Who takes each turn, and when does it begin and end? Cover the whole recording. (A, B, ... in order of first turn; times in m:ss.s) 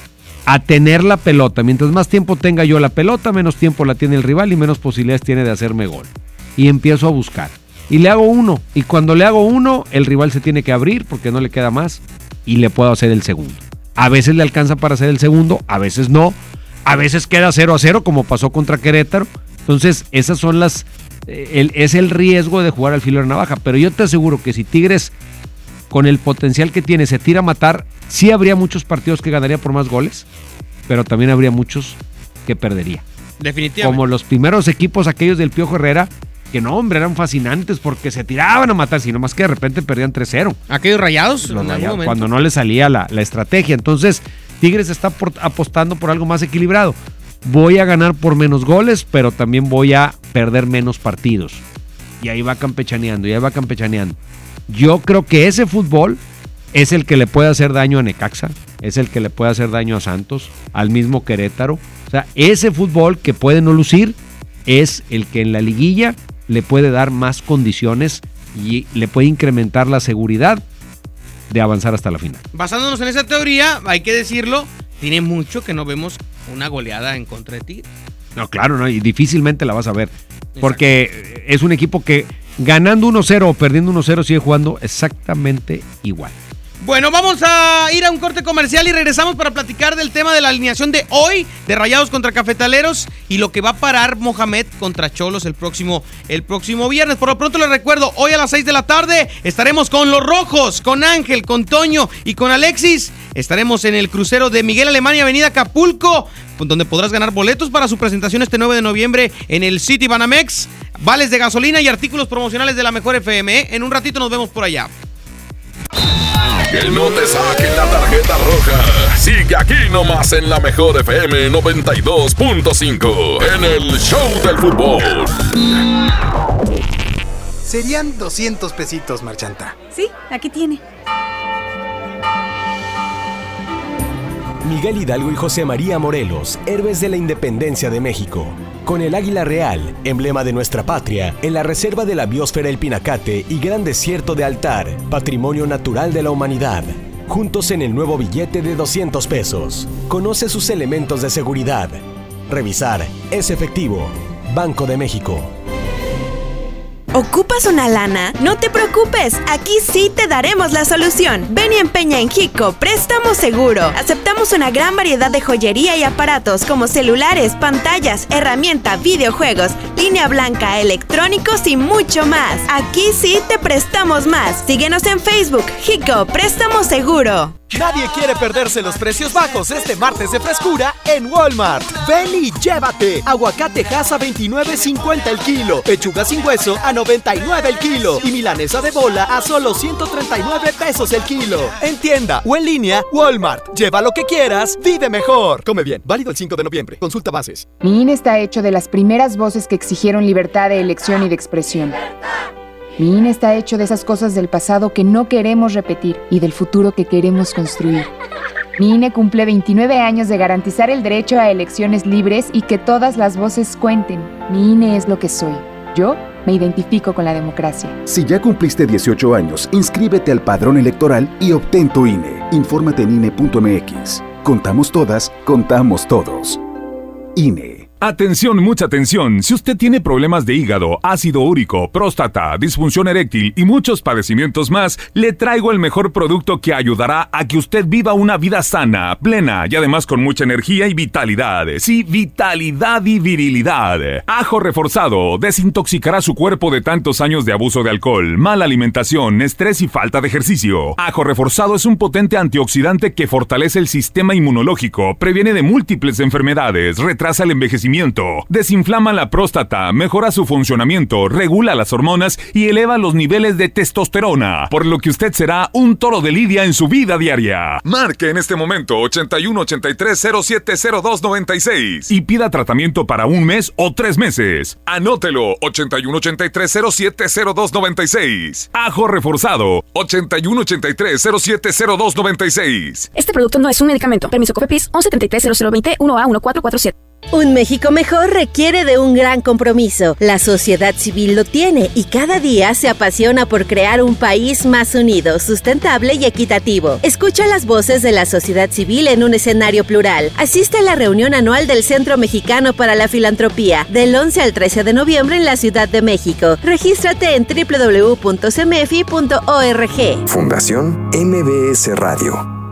0:00.5-0:25.1 A
0:25.9-0:30.2 A
0:30.9-0:33.0 A
0:33.4-0:34.0 B
0:33.8-0:40.6 A
0:40.7-0:42.2 B
0:41.4-0:51.6 A
0:52.2-0:54.2 A
0:54.7-0:56.2 A
0:56.7-1:04.2 A
1:04.7-1:10.6 A
1:11.5-1:12.4 A
1:12.5-1:17.9 B
1:18.4-1:26.4 A
1:20.6-1:20.8 B
1:26.8-1:54.9 B
1:56.7-2:05.8 C
2:07.6-2:09.8 D
2:14.6-2:32.0 E
2:32.5-2:35.5 E
2:37.1-2:57.5 F
2:57.7-3:17.6 G
3:17.8-3:22.0 H
3:23.0-3:28.1 H
3:28.8-3:38.0 H
3:38.0-3:46.6 I
3:47.4-3:47.9 I
3:48.0-4:28.3 J
4:31.9-4:35.4 J
4:36.7-4:43.0 J
4:43.1-4:46.9 K
4:47.4-5:06.6 L
4:57.0-4:57.9 F
5:00.3-5:00.8 F
5:03.8-5:04.4 F
5:06.6-5:07.8 F
5:07.3-5:10.2 L
5:08.5-5:09.1 F
5:10.3-5:12.4 D